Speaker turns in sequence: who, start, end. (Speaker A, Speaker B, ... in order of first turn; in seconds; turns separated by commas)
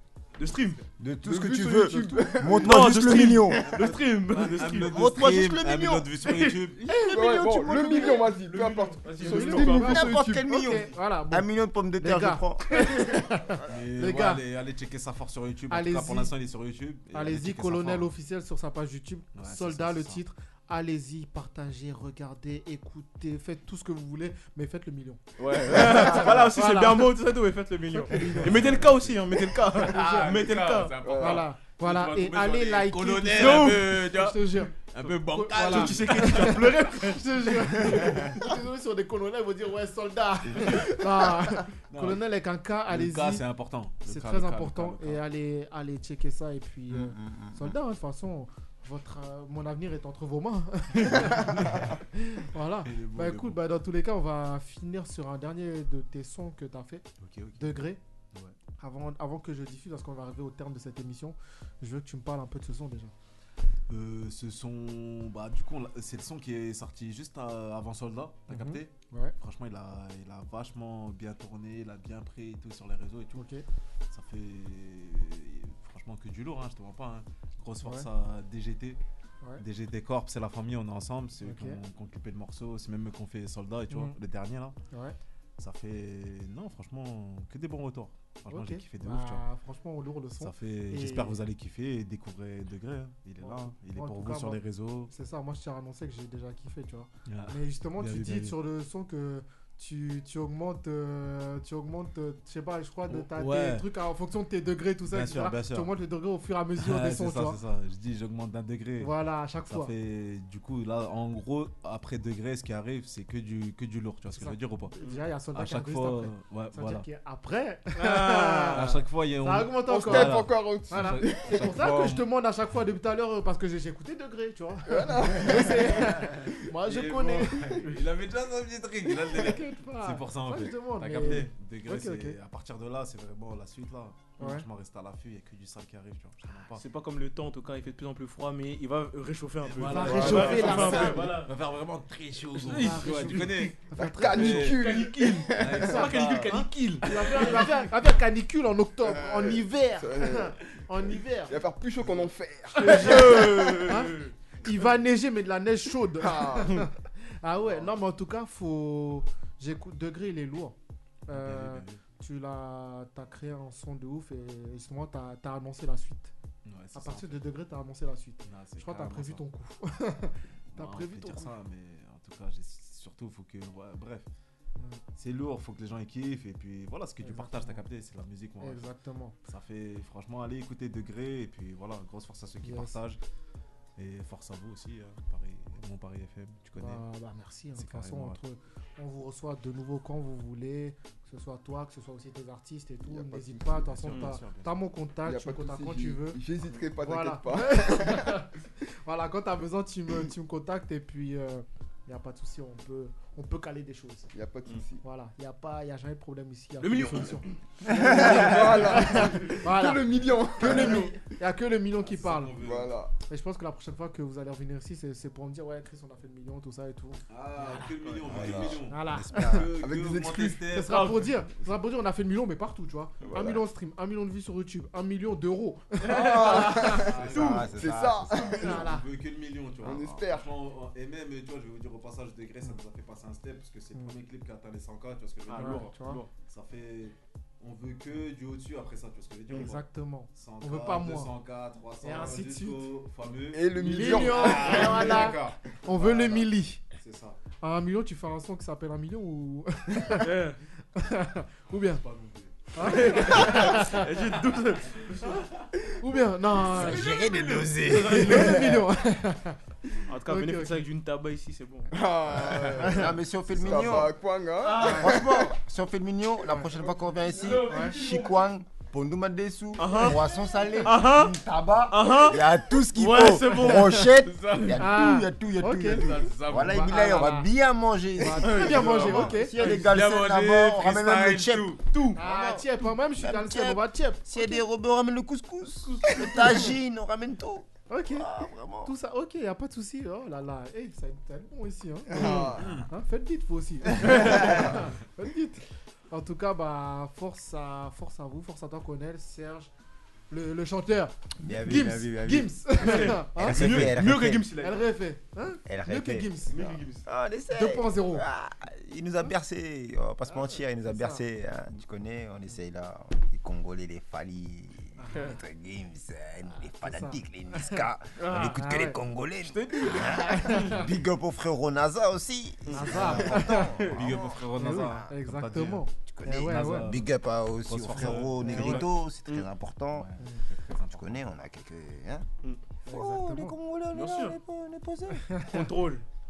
Speaker A: 0.4-0.8, Speaker B: 1.0-3.7, Speaker C: 1.2-3.0, Speaker A: 2.6-5.1, Speaker D: 3.5-6.8, Speaker B: 4.9-6.1, Speaker A: 6.2-6.6, Speaker B: 6.8-8.3, Speaker C: 6.9-10.7, Speaker A: 8.4-10.0, Speaker E: 9.2-14.4, Speaker B: 9.8-12.9, Speaker D: 13.7-18.1, Speaker E: 15.7-16.3, Speaker E: 17.1-27.1, Speaker D: 19.4-20.2, Speaker A: 25.4-31.0, Speaker E: 28.0-28.8, Speaker D: 28.2-29.2, Speaker E: 29.8-30.3, Speaker D: 29.8-36.6, Speaker C: 31.0-31.4, Speaker E: 31.1-43.5, Speaker A: 33.3-34.1, Speaker A: 35.5-38.1, Speaker B: 40.5-40.9, Speaker D: 41.9-42.2, Speaker D: 42.9-45.2, Speaker E: 44.0-58.0, Speaker B: 46.9-47.8, Speaker D: 51.4-51.9, Speaker D: 52.8-53.6, Speaker D: 57.2-58.5, Speaker E: 58.8-63.1, Speaker D: 63.9-73.5, Speaker E: 68.5-69.3, Speaker E: 73.3-73.6, Speaker D: 74.1-79.0, Speaker E: 77.8-78.1, Speaker D: 79.6-84.8, Speaker E: 81.4-81.8, Speaker E: 84.9-85.2, Speaker D: 85.6-89.5, Speaker E: 88.5-91.4, Speaker D: 90.4-95.1, Speaker E: 93.4-107.6, Speaker D: 97.3-98.6, Speaker D: 103.1-103.9, Speaker D: 105.1-105.9, Speaker D: 106.8-109.1, Speaker E: 109.0-109.9, Speaker D: 109.7-114.9, Speaker E: 114.3-127.9, Speaker A: 115.0-115.2, Speaker D: 115.5-117.0, Speaker A: 117.9-119.0, Speaker D: 118.7-122.3, Speaker C: 119.9-121.7, Speaker C: 124.8-126.5, Speaker D: 125.8-136.8, Speaker E: 129.3-132.4, Speaker E: 134.4-134.6, Speaker A: 136.7-141.5, Speaker D: 139.6-144.9, Speaker E: 139.8-141.3, Speaker C: 140.0-141.1, Speaker A: 142.5-143.6, Speaker E: 142.7-144.8, Speaker C: 143.9-146.4, Speaker A: 144.7-147.9, Speaker D: 145.5-146.7, Speaker E: 145.8-151.5, Speaker C: 149.0-154.0, Speaker E: 152.7-160.8, Speaker A: 152.8-154.3, Speaker C: 156.2-156.8, Speaker E: 161.3-166.3, Speaker D: 161.3-162.0, Speaker D: 166.7-167.5, Speaker E: 166.9-171.5, Speaker D: 168.4-169.4, Speaker D: 170.7-174.3, Speaker D: 175.2-178.9, Speaker E: 177.2-177.8, Speaker E: 178.6-179.3, Speaker D: 179.4-183.2, Speaker E: 182.6-183.0, Speaker D: 184.0-187.0, Speaker E: 186.8-196.4, Speaker D: 187.7-188.4, Speaker C: 193.0-194.3, Speaker D: 193.9-194.8, Speaker C: 195.2-198.4, Speaker E: 197.0-198.5, Speaker E: 199.0-204.3, Speaker C: 204.3-205.0, Speaker E: 205.0-212.5, Speaker A: 206.8-207.5, Speaker C: 207.8-211.2, Speaker A: 208.2-208.4, Speaker A: 210.7-211.0, Speaker D: 212.0-212.9, Speaker C: 212.6-213.1, Speaker E: 213.3-217.8, Speaker D: 217.3-221.1, Speaker A: 218.0-218.3, Speaker B: 218.3-219.8, Speaker E: 218.9-219.6, Speaker C: 219.7-220.7, Speaker E: 220.7-227.1, Speaker A: 220.9-221.3, Speaker C: 223.2-223.6, Speaker C: 226.0-228.9, Speaker A: 226.3-226.6, Speaker D: 226.9-227.9, Speaker B: 227.2-228.8, Speaker A: 227.3-227.7, Speaker E: 228.5-229.1, Speaker D: 228.8-247.4, Speaker C: 229.8-230.5, Speaker A: 235.4-236.3, Speaker E: 235.5-236.2, Speaker E: 239.5-241.3, Speaker E: 242.0-242.8, Speaker C: 243.5-245.3, Speaker E: 243.9-246.8, Speaker E: 247.6-250.3, Speaker A: 250.1-250.6, Speaker E: 250.9-252.0, Speaker D: 251.9-253.4, Speaker E: 252.7-254.1, Speaker A: 252.8-255.4, Speaker E: 256.0-257.4, Speaker B: 256.7-258.8, Speaker A: 257.8-258.8, Speaker E: 257.9-259.6, Speaker A: 260.1-261.9, Speaker E: 260.2-260.9, Speaker C: 261.9-265.5, Speaker E: 262.8-263.1, Speaker B: 262.8-264.1, Speaker A: 264.6-265.1, Speaker B: 264.8-288.9, Speaker D: 267.4-268.4, Speaker A: 267.5-268.1, Speaker E: 267.6-267.9, Speaker A: 269.8-270.2, Speaker A: 270.8-271.4, Speaker A: 271.9-274.2, Speaker D: 274.2-274.8, Speaker E: 274.8-277.5, Speaker D: 275.9-277.2, Speaker E: 278.2-279.9, Speaker A: 278.4-279.7, Speaker D: 278.7-281.8, Speaker A: 281.8-282.2, Speaker E: 282.1-284.6, Speaker A: 285.8-286.7, Speaker E: 287.9-288.3, Speaker E: 288.8-299.7, Speaker C: 292.1-292.8, Speaker D: 292.6-292.9, Speaker A: 294.1-294.5, Speaker E: 300.3-303.8, Speaker B: 301.4-304.5, Speaker A: 302.8-304.8, Speaker D: 303.5-303.9, Speaker E: 304.6-306.8, Speaker B: 305.6-306.5, Speaker A: 306.5-307.1, Speaker B: 307.0-325.0, Speaker E: 307.5-308.2, Speaker E: 310.3-311.2, Speaker E: 315.0-315.4, Speaker E: 316.7-317.8, Speaker A: 318.2-318.6, Speaker E: 318.4-319.0, Speaker A: 319.4-320.7, Speaker E: 320.1-320.8, Speaker A: 322.7-323.0, Speaker E: 322.7-323.8, Speaker D: 322.9-328.9, Speaker E: 324.6-326.9, Speaker B: 326.1-330.1, Speaker E: 328.4-328.8, Speaker A: 328.5-329.5, Speaker D: 329.9-331.2, Speaker B: 330.9-332.3, Speaker E: 332.9-333.6, Speaker B: 332.9-335.3, Speaker A: 333.9-334.4, Speaker E: 335.1-335.7, Speaker A: 335.5-336.0